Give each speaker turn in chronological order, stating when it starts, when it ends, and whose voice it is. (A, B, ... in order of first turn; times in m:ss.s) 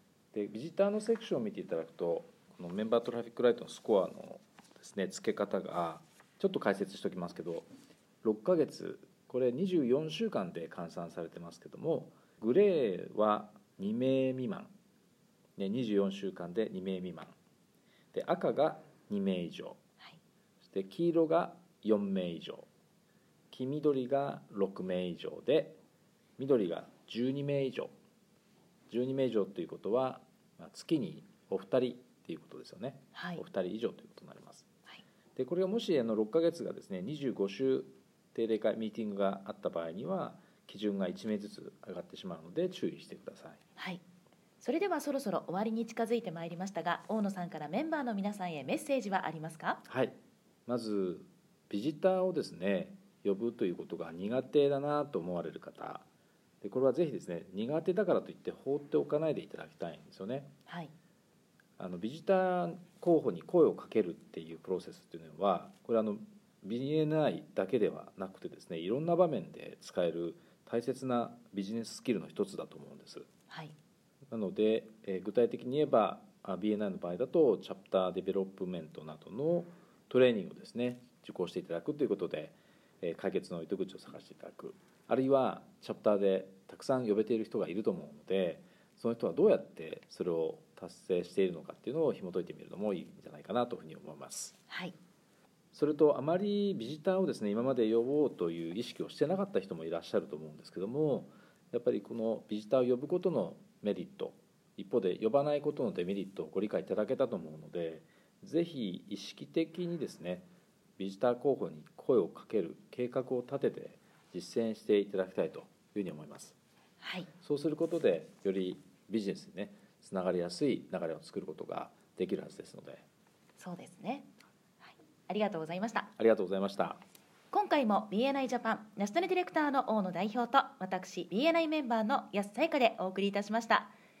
0:00.3-0:07.7 A
0:08.2-0:14.7 A
0:15.6-0:17.4 A
0:18.1-0:19.8 A
0:20.6-0:22.7 A
0:23.5-0:25.8 A
0:26.4-0:27.9 A
0:28.9-0:34.7 A
0:33.1-0:33.4 B
0:35.4-0:43.6 A
0:43.8-0:44.0 B
0:44.6-0:49.8 B
0:49.8-0:56.1 A
0:56.6-1:00.5 A
1:00.7-1:00.9 B
1:01.8-1:13.3 A
1:13.5-1:13.7 B
1:14.3-1:34.6 A
1:34.7-1:35.0 B
1:35.7-1:56.6 A
1:57.0-1:57.3 B
1:57.4-2:03.0 A
2:03.6-2:04.3 B
2:04.8-2:06.1 B
2:06.2-2:07.0 A
2:07.5-2:13.9 B